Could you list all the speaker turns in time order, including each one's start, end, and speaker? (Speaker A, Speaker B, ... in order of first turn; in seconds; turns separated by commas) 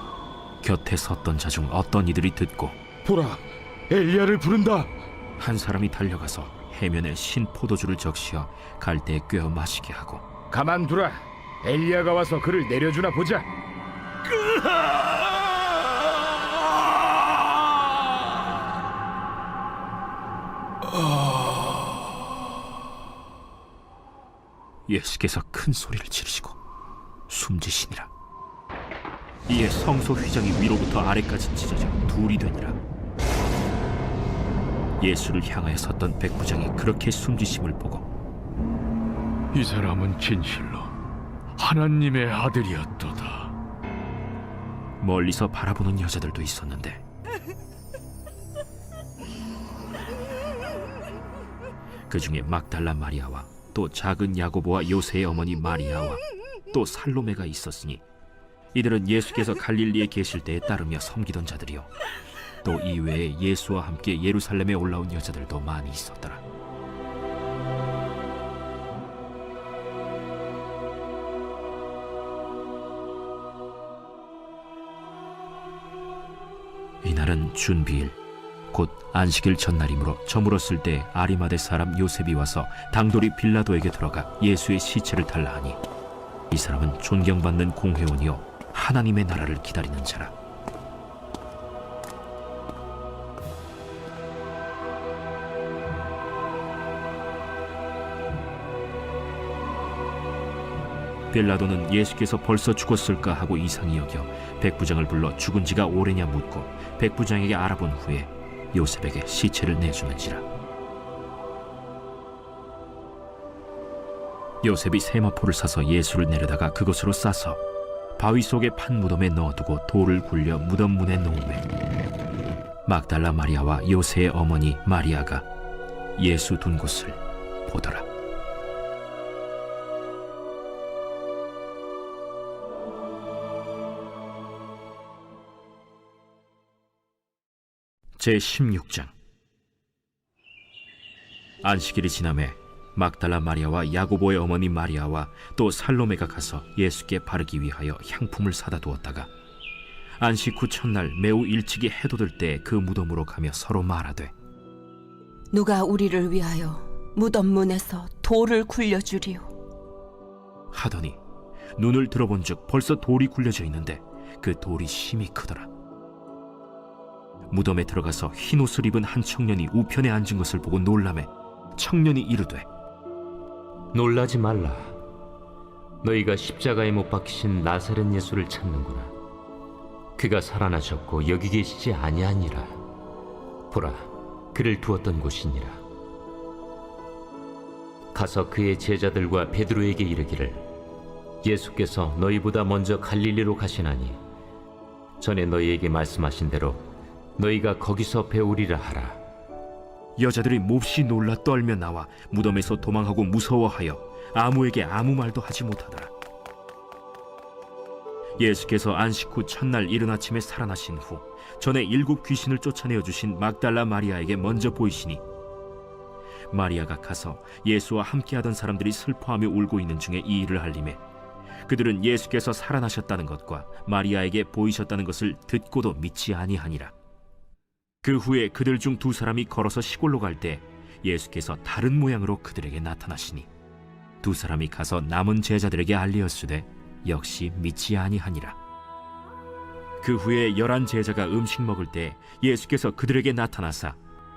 Speaker A: 0.6-2.8, Speaker B: 3.0-4.9, Speaker A: 5.4-10.2, Speaker B: 10.5-13.5, Speaker A: 24.9-26.6, Speaker A: 27.3-28.1, Speaker A: 29.5-32.8, Speaker A: 35.0-38.1, Speaker C: 39.5-40.9, Speaker C: 41.6-43.5, Speaker A: 45.0-47.0, Speaker A: 52.1-58.0, Speaker A: 58.7-61.9, Speaker A: 62.6-66.4, Speaker A: 77.0-78.2, Speaker A: 78.7-85.8, Speaker A: 86.5-90.3, Speaker A: 101.3-110.4, Speaker A: 114.6-117.6, Speaker A: 118.2-121.7, Speaker A: 122.9-125.4, Speaker A: 126.2-128.1, Speaker A: 138.2-139.1, Speaker A: 141.6-149.3, Speaker A: 150.2-154.3, Speaker D: 155.5-159.5, Speaker A: 160.7-161.2, Speaker A: 161.8-165.7, Speaker A: 167.5-172.7, Speaker E: 173.9-175.0, Speaker E: 176.0-179.1, Speaker E: 180.2-182.8, Speaker E: 183.7-185.8, Speaker E: 188.1-190.6, Speaker E: 191.4-194.2, Speaker E: 195.2-196.8, Speaker E: 197.4-199.2, Speaker A: 200.2-206.1, Speaker A: 208.4-215.2, Speaker A: 216.5-221.0, Speaker A: 221.7-226.9, Speaker A: 228.0-233.5, Speaker A: 234.2-238.6, Speaker A: 240.0-244.0